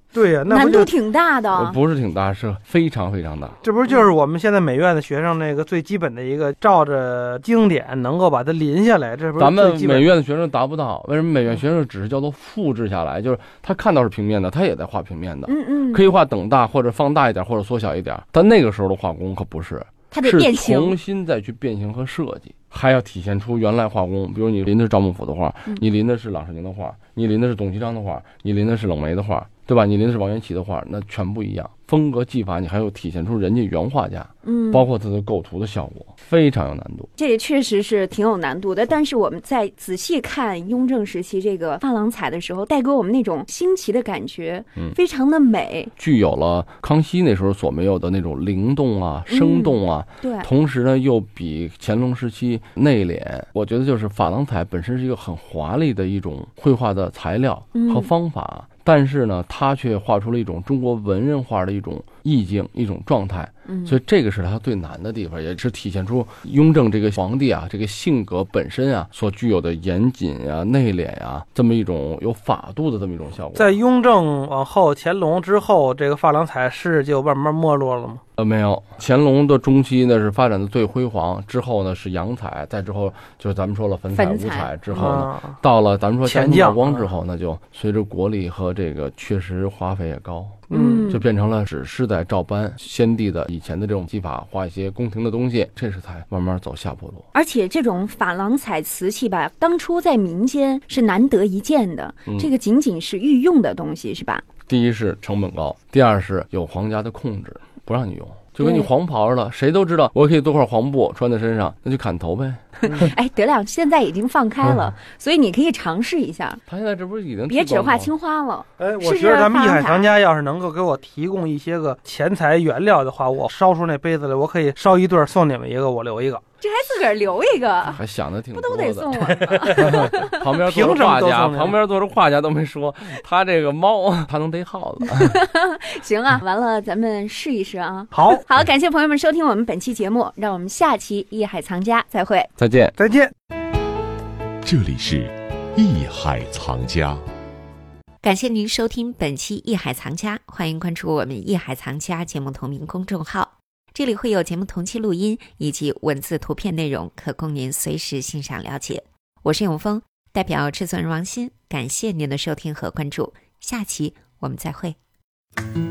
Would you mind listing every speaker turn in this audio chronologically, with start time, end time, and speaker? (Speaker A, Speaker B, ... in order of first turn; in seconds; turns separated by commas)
Speaker A: 0.1-0.9, Speaker B: 0.5-1.8, Speaker C: 1.5-3.5, Speaker A: 3.6-10.1, Speaker C: 9.4-37.1, Speaker B: 15.5-16.1, Speaker B: 20.1-21.0, Speaker B: 34.4-34.9, Speaker B: 37.2-45.9, Speaker C: 46.0-73.8, Speaker B: 49.3-50.5, Speaker B: 57.7-58.1, Speaker B: 63.7-64.0, Speaker A: 73.5-78.2, Speaker C: 78.4-97.2, Speaker B: 84.1-85.0, Speaker A: 84.9-85.6, Speaker A: 86.2-87.1, Speaker B: 90.7-91.2, Speaker A: 90.7-91.1, Speaker B: 97.3-104.5, Speaker C: 102.3-102.5, Speaker C: 104.6-112.8, Speaker B: 108.6-108.9, Speaker B: 112.8-116.6, Speaker C: 116.7-118.1, Speaker B: 117.5-120.1, Speaker A: 118.8-126.4, Speaker B: 126.6-128.0, Speaker C: 127.9-135.3, Speaker B: 128.5-130.5, Speaker A: 129.5-129.9, Speaker A: 130.6-131.8, Speaker B: 135.2-142.5, Speaker A: 138.1-138.4, Speaker C: 142.6-142.9, Speaker A: 143.0-143.3, Speaker D: 144.6-147.2, Speaker E: 148.2-164.9